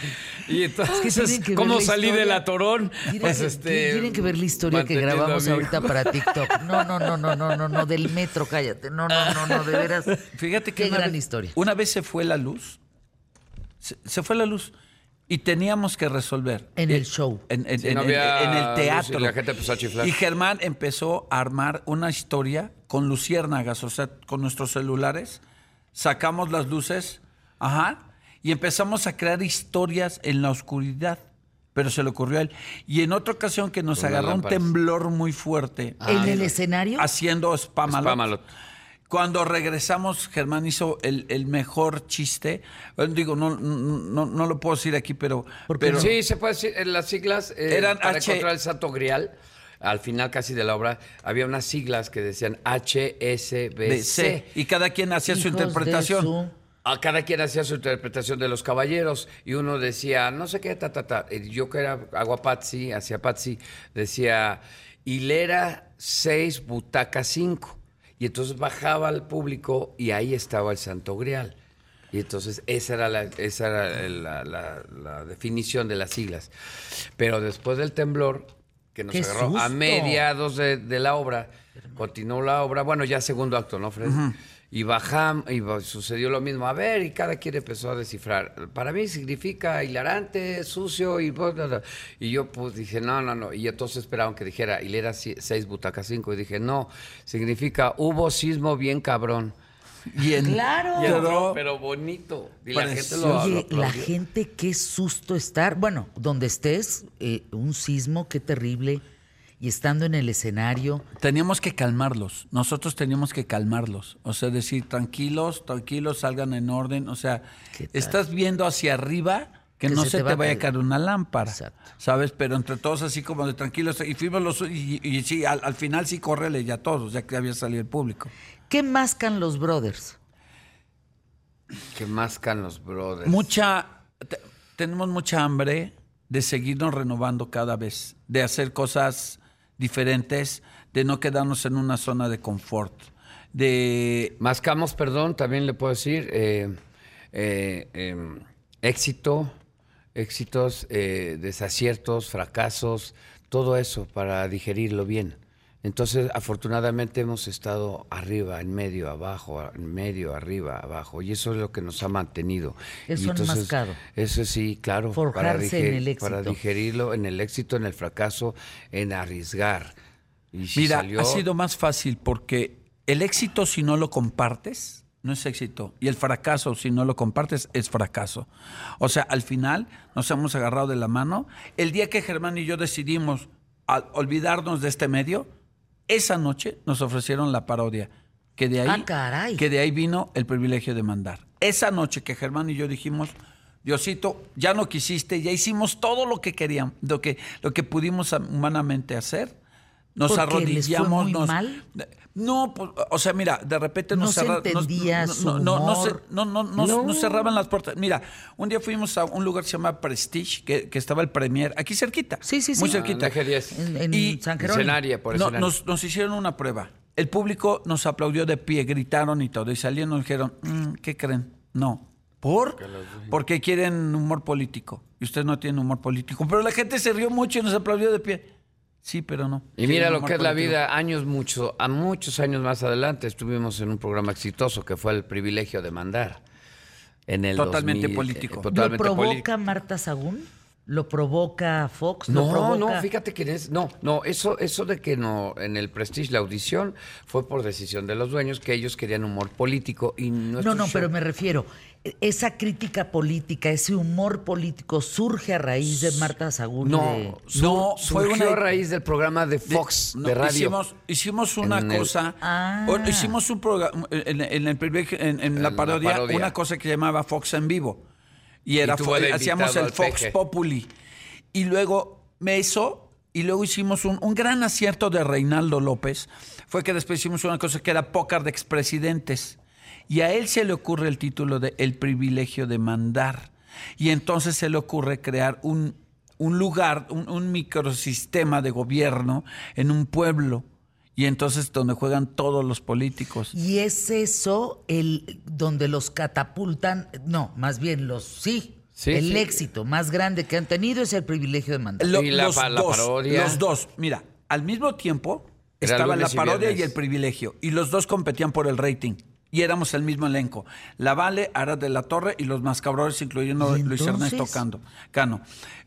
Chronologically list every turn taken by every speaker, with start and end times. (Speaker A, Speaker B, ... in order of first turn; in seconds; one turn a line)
Speaker A: 0.4-6.8
Speaker B: 0.9-2.4
Speaker B: 3.0-10.2
Speaker C: 10.2-12.8
Speaker B: 10.7-11.6
Speaker C: 13.8-14.7
Speaker C: 15.3-19.4
Speaker B: 16.8-17.4
Speaker A: 17.8-20.1
Speaker C: 19.9-25.4
Speaker C: 25.9-38.3
Speaker A: 33.9-34.7
Speaker A: 36.0-36.5
Speaker B: 36.0-37.1
Speaker A: 37.9-38.4
Speaker C: 39.1-46.1
Speaker B: 45.7-46.1
Speaker A: 45.9-54.5
Speaker C: 47.7-48.5
Speaker C: 53.8-56.3
Speaker B: 55.2-56.5
Speaker A: 56.8-71.5
Speaker A: 72.1-76.5
Speaker A: 77.2-99.5
Speaker B: 79.1-80.2
Speaker C: 84.0-84.3
Speaker C: 100.1-101.6
Speaker B: 100.3-101.3
Speaker A: 100.9-104.1
Speaker C: 102.7-103.6
Speaker B: 103.2-109.0
Speaker B: 109.6-111.0
Speaker C: 111.2-128.3
Speaker B: 117.7-118.2
Speaker B: 119.8-120.7
Speaker B: 121.4-121.9
Speaker B: 128.7-130.2
Speaker A: 131.9-133.5
Speaker C: 133.2-144.3
Speaker A: 144.4-146.7
Speaker A: 147.3-149.5
Speaker A: 150.1-169.9
Speaker B: 163.1-164.0
Speaker B: 165.1-166.6
Speaker A: 170.5-171.4
Speaker C: 170.7-185.5
Speaker C: 186.1-199.5
Speaker B: 188.8-189.7
Speaker C: 200.2-213.4
Speaker B: 200.3-201.8
Speaker B: 204.1-206.2
Speaker A: 206.8-207.6
Speaker B: 212.4-215.0
Speaker A: 212.8-213.8
Speaker C: 214.1-214.5
Speaker A: 214.6-215.7
Speaker C: 215.3-228.5
Speaker A: 222.8-223.3
Speaker C: 229.0-230.8
Speaker A: 229.8-236.4
Speaker A: 237.3-239.5
Speaker C: 237.6-238.8
Speaker B: 238.7-243.1
Speaker A: 242.3-251.1
Speaker B: 250.6-257.4
Speaker A: 256.0-256.2
Speaker A: 256.8-260.8
Speaker C: 257.5-258.7
Speaker C: 259.6-268.0
Speaker A: 261.6-262.1
Speaker B: 262.4-263.4
Speaker A: 265.5-266.5
Speaker C: 268.6-270.9
Speaker A: 268.8-270.3
Speaker C: 271.5-279.6
Speaker C: 280.1-293.5
Speaker B: 293.5-302.2
Speaker A: 298.9-299.6
Speaker C: 302.0-315.4
Speaker A: 302.1-303.6
Speaker A: 305.8-306.9
Speaker B: 313.6-314.6